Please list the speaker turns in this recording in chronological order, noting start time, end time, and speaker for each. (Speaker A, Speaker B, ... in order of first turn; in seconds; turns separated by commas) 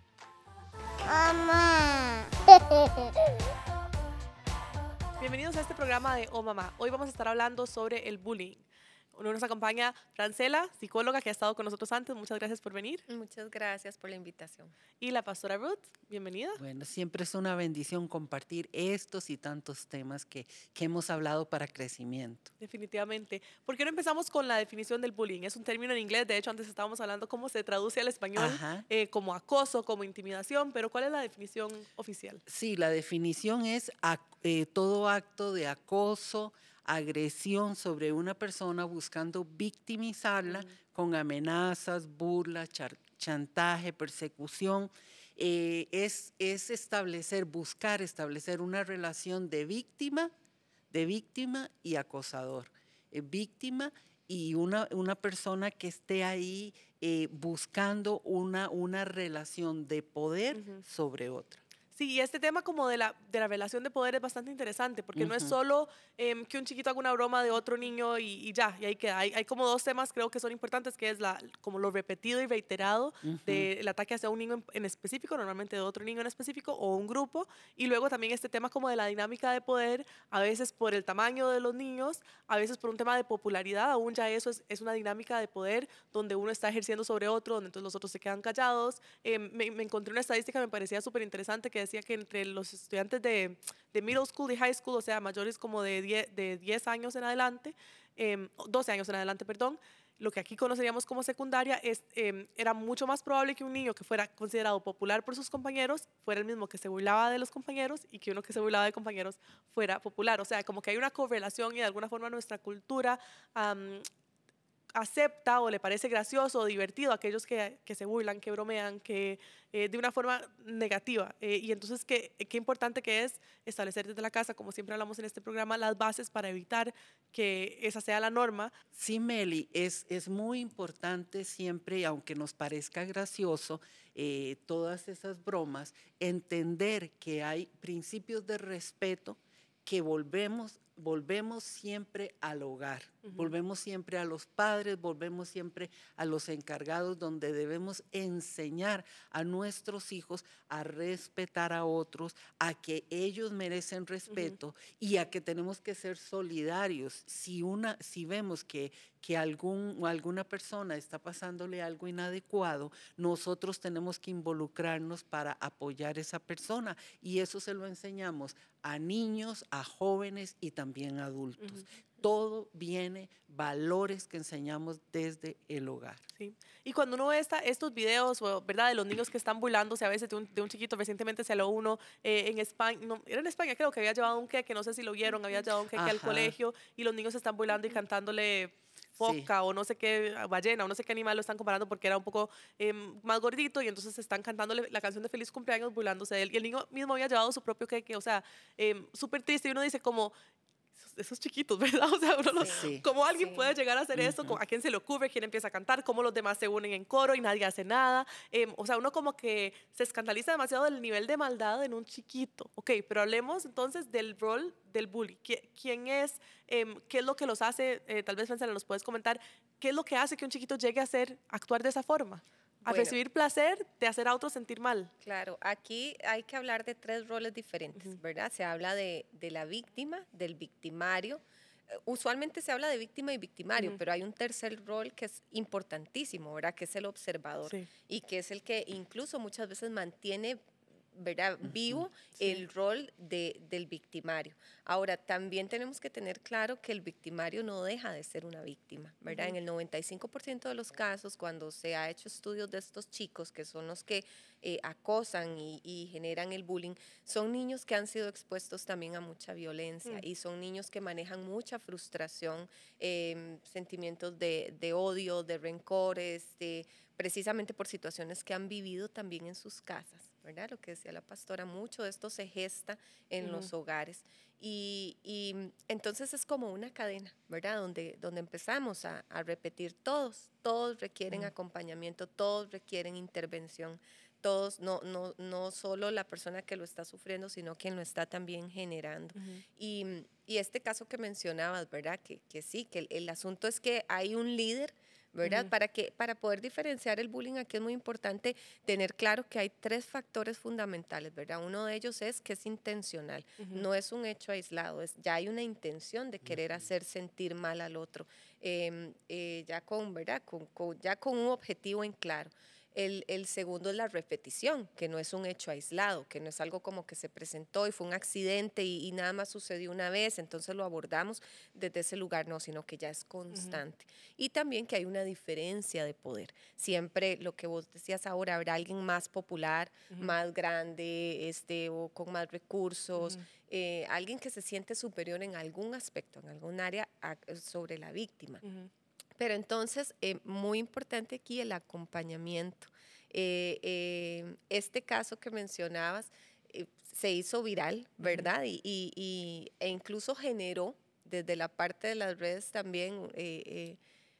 Speaker A: 5.2-13.0, Speaker B: 13.1-14.7, Speaker A: 15.0-16.6, Speaker C: 16.6-22.5, Speaker A: 22.6-32.4, Speaker C: 28.4-28.9, Speaker C: 32.5-50.3, Speaker C: 50.9-61.6, Speaker A: 60.5-60.8, Speaker A: 61.9-114.0, Speaker C: 65.2-65.5, Speaker C: 73.2-73.7, Speaker A: 114.9-128.7, Speaker C: 128.9-176.2, Speaker A: 154.3-154.6, Speaker A: 176.3-200.3, Speaker C: 185.9-186.5, Speaker C: 189.2-189.5, Speaker A: 200.9-225.1, Speaker C: 202.6-203.0, Speaker B: 202.6-203.7, Speaker C: 204.2-204.6, Speaker B: 222.8-223.2, Speaker B: 225.2-338.6, Speaker C: 241.7-242.0, Speaker A: 249.3-249.6, Speaker A: 273.4-273.7, Speaker A: 289.3-289.6, Speaker A: 295.4-295.7, Speaker A: 303.6-303.9, Speaker C: 306.4-306.8, Speaker A: 323.5-323.8, Speaker A: 333.2-333.4, Speaker A: 338.6-338.9, Speaker B: 339.4-354.0, Speaker A: 348.2-348.5